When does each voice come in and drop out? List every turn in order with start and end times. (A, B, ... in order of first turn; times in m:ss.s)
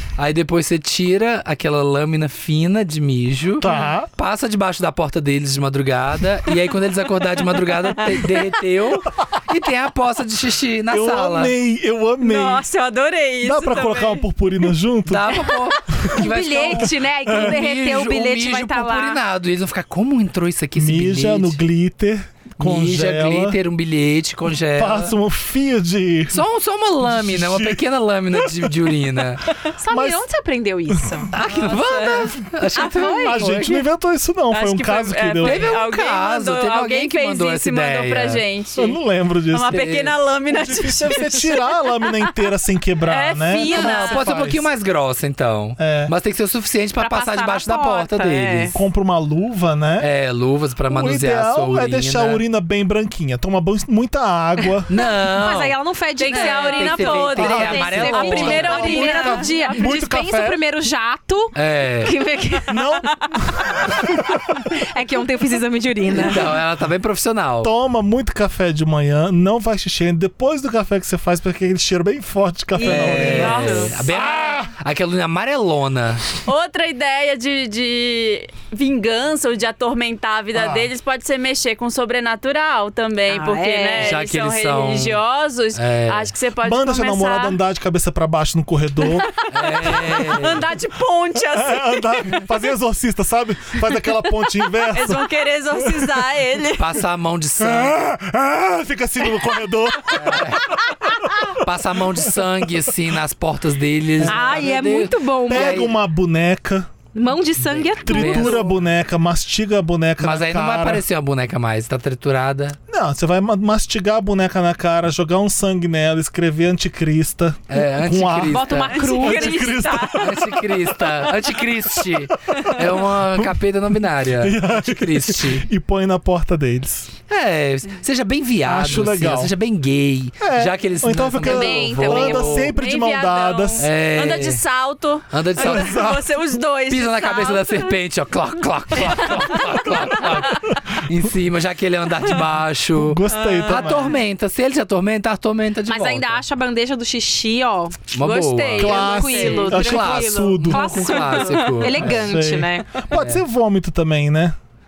0:00.2-0:11.5 A
0:03.6-0:04.1 B
0:10.9-0:12.6 B
0:12.2-0:14.2 C
0:13.4-0:16.1 B
0:15.0-0:21.6 A
0:16.0-0:19.2 D
0:17.3-0:17.6 B
0:20.8-0:23.6 B
0:22.6-0:25.1 A
0:24.7-0:26.4 B
0:26.3-0:29.5 A
0:27.0-0:28.9 B
0:29.6-0:30.2 B
0:29.8-0:31.3 D
0:30.9-0:31.3 B
0:31.3-0:33.8 A
0:31.3-0:32.4 C
0:32.6-0:35.7 B
0:32.8-0:33.6 D
0:34.5-0:39.0 C
0:35.4-0:38.4 A
0:38.8-0:39.8 B
0:39.5-0:41.7 C
0:39.7-0:40.2 A
0:40.5-0:44.6 B
0:43.0-0:44.2 C
0:43.6-0:48.8 A
0:45.8-0:46.1 B
0:47.0-0:48.8 D
0:48.7-0:50.1 B
0:50.0-0:52.4 A
0:50.9-0:54.9 B
0:54.9-0:59.1 A
0:55.4-1:06.5 D
0:56.2-0:59.8 C
0:57.4-1:00.6 B
1:01.5-1:02.1 A
1:02.7-1:04.6 B
1:06.1-1:07.7 A
1:07.6-1:14.7 B
1:12.8-1:14.3 C
1:12.8-1:16.3 A
1:12.9-1:13.7 D
1:16.4-1:27.6 C
1:20.5-1:20.9 B
1:23.3-1:24.2 D
1:24.0-1:25.2 A
1:25.7-1:26.3 A
1:26.6-1:29.3 B
1:29.0-1:32.6 C
1:29.5-1:30.7 A
1:31.4-1:36.2 B
1:34.8-1:37.0 C
1:36.8-1:38.0 A
1:37.6-1:41.6 B
1:40.1-1:40.8 A
1:41.5-1:45.9 A
1:44.2-1:44.7 B
1:44.2-1:45.8 D
1:45.5-1:46.9 B
1:47.1-1:48.7 D
1:47.6-1:48.6 A
1:48.0-1:51.0 B
1:50.2-1:52.8 A
1:52.9-2:03.6 B
1:57.7-1:59.1 A
1:58.5-2:00.1 D
1:58.9-2:00.5 C
2:00.1-2:05.7 A
2:04.4-2:07.1 B
2:07.3-2:12.8 A
2:08.6-2:09.5 B
2:10.4-2:13.9 B
2:11.4-2:12.7 D
2:12.5-2:18.0 C
2:13.8-2:14.6 A
2:15.3-2:16.2 A
2:15.6-2:16.3 B
2:16.9-2:26.4 A
2:18.9-2:20.8 C
2:22.9-2:24.2 B
2:23.3-2:24.1 C
2:25.8-2:28.0 D
2:28.1-2:32.3 A
2:28.2-2:30.5 C
2:28.8-2:31.4 B
2:29.0-2:32.9 D
2:31.1-2:31.9 C
2:32.0-2:34.6 B
2:33.1-2:33.4 A